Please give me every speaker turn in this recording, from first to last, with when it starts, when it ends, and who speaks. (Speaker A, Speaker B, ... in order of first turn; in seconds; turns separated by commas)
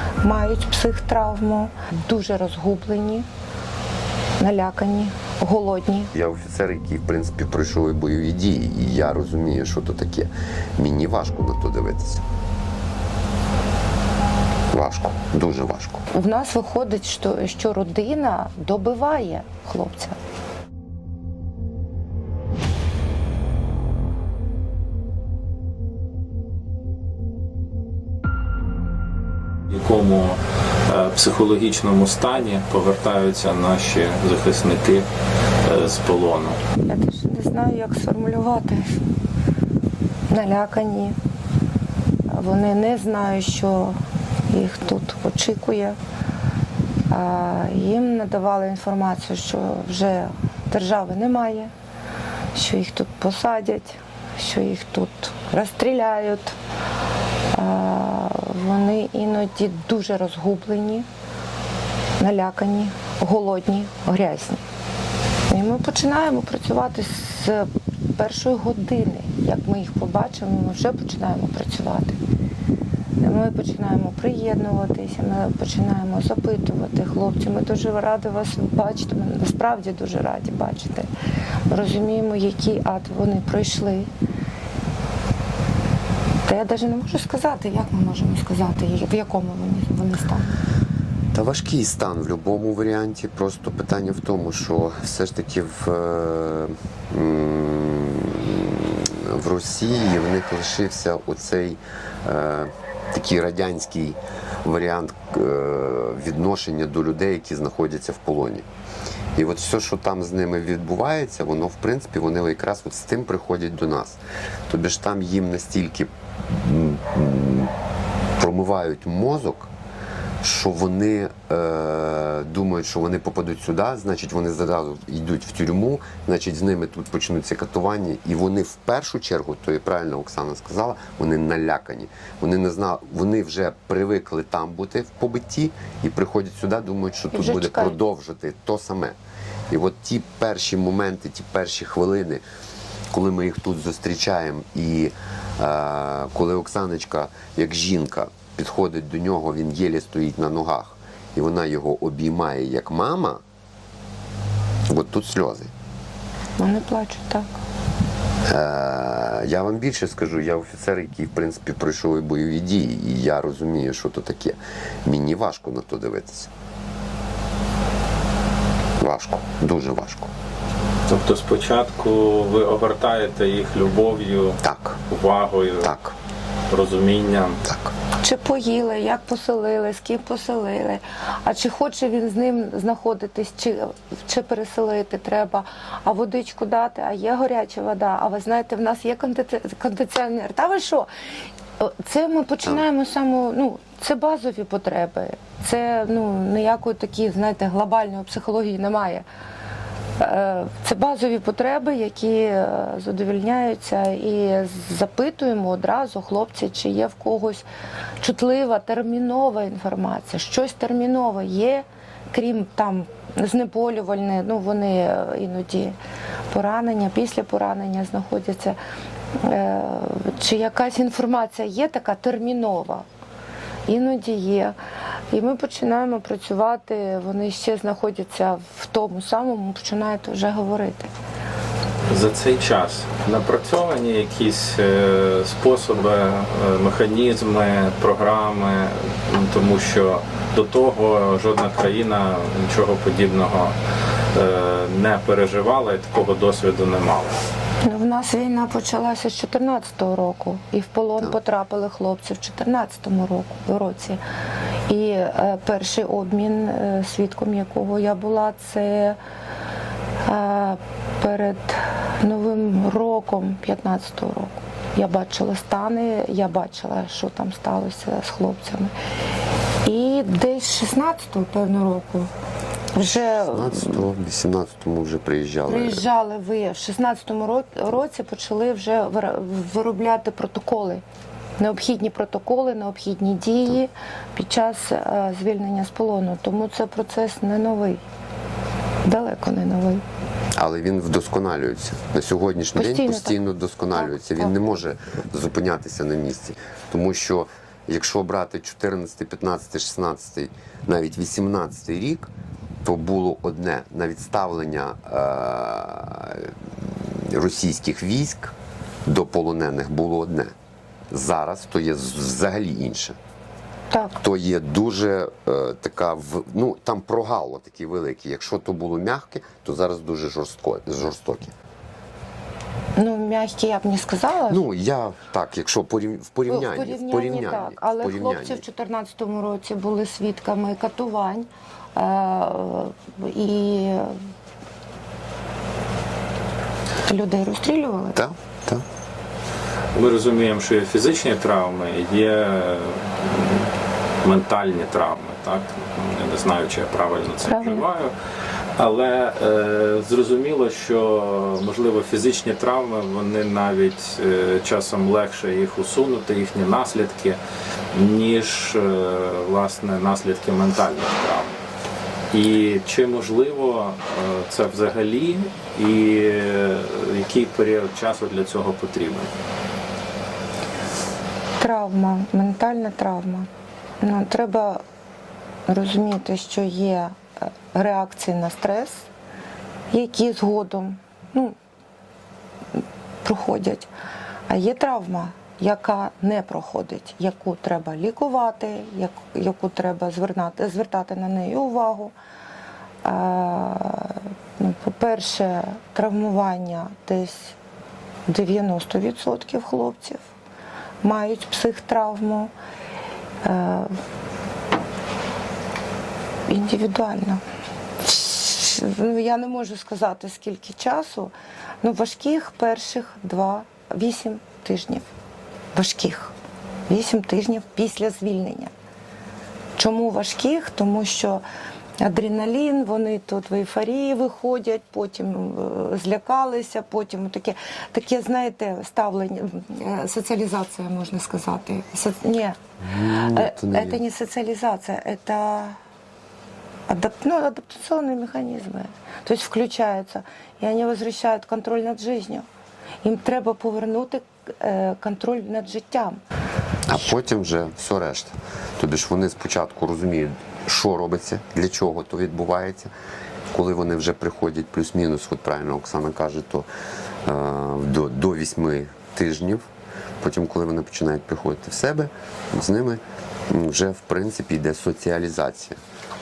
Speaker A: 0.2-3.3, Speaker A: 4.4-6.1, Speaker B: 6.1-12.2, Speaker B: 14.7-16.0, Speaker A: 16.1-20.2, Speaker C: 29.7-35.1, Speaker C: 35.6-36.6, Speaker A: 36.8-39.0, Speaker A: 40.3-41.2, Speaker A: 42.3-44.0, Speaker A: 44.5-46.0, Speaker A: 47.1-51.7, Speaker A: 52.5-56.6, Speaker A: 57.5-61.1, Speaker A: 62.2-64.6, Speaker A: 65.5-72.2, Speaker A: 73.2-81.1, Speaker A: 81.7-84.1, Speaker A: 86.4-90.6, Speaker B: 91.3-108.7, Speaker B: 109.3-117.7, Speaker B: 118.4-119.7, Speaker B: 120.4-139.2, Speaker A: 137.3-138.0, Speaker B: 139.7-142.4, Speaker B: 143.1-153.4, Speaker B: 154.9-155.7, Speaker A: 156.6-157.5, Speaker B: 158.5-166.5, Speaker B: 169.0-170.3, Speaker C: 171.1-175.9, Speaker B: 174.6-175.0, Speaker B: 175.8-176.2, Speaker C: 176.7-177.6, Speaker B: 177.6-177.9, Speaker A: 178.2-191.1, Speaker A: 191.8-199.2, Speaker A: 200.2-207.7, Speaker A: 208.2-216.0, Speaker A: 216.5-218.8, Speaker A: 219.4-223.1, Speaker A: 223.9-224.8, Speaker A: 225.3-231.1, Speaker C: 232.1-243.7, Speaker C: 244.3-247.4, Speaker A: 247.8-254.2, Speaker A: 254.9-259.2, Speaker A: 260.2-268.9, Speaker A: 269.8-272.3, Speaker A: 272.9-274.0, Speaker B: 273.4-276.0, Speaker A: 275.7-281.0, Speaker A: 281.6-288.0, Speaker A: 289.0-290.0, Speaker B: 290.6-302.3, Speaker A: 292.8-293.4, Speaker A: 293.9-294.5, Speaker B: 302.8-308.5, Speaker B: 309.1-310.5, Speaker B: 311.1-313.2, Speaker B: 314.2-321.5, Speaker A: 322.9-324.6, Speaker B: 324.5-328.6, Speaker A: 326.5-334.2, Speaker A: 337.0-338.2, Speaker B: 338.1-338.8, Speaker C: 339.9-343.7, Speaker C: 344.2-348.1, Speaker A: 347.4-347.8, Speaker C: 348.8-357.4, Speaker C: 357.9-361.6, Speaker C: 362.3-369.3, Speaker A: 371.6-373.5, Speaker A: 374.0-374.8, Speaker A: 375.7-377.2, Speaker A: 377.7-379.1, Speaker A: 379.9-381.6, Speaker A: 383.2-383.9, Speaker A: 384.5-392.1, Speaker A: 393.0-397.6, Speaker A: 398.3-400.2, Speaker A: 401.0-402.5, Speaker A: 403.4-404.0, Speaker A: 406.5-407.4, Speaker A: 408.0-415.1, Speaker A: 415.7-416.3, Speaker A: 416.9-418.7, Speaker A: 419.8-421.4, Speaker A: 422.0-435.8, Speaker B: 432.8-434.0, Speaker A: 436.9-442.4, Speaker A: 443.0-446.2, Speaker B: 446.9-452.9, Speaker B: 453.5-456.7, Speaker B: 457.2-459.6, Speaker B: 460.2-465.8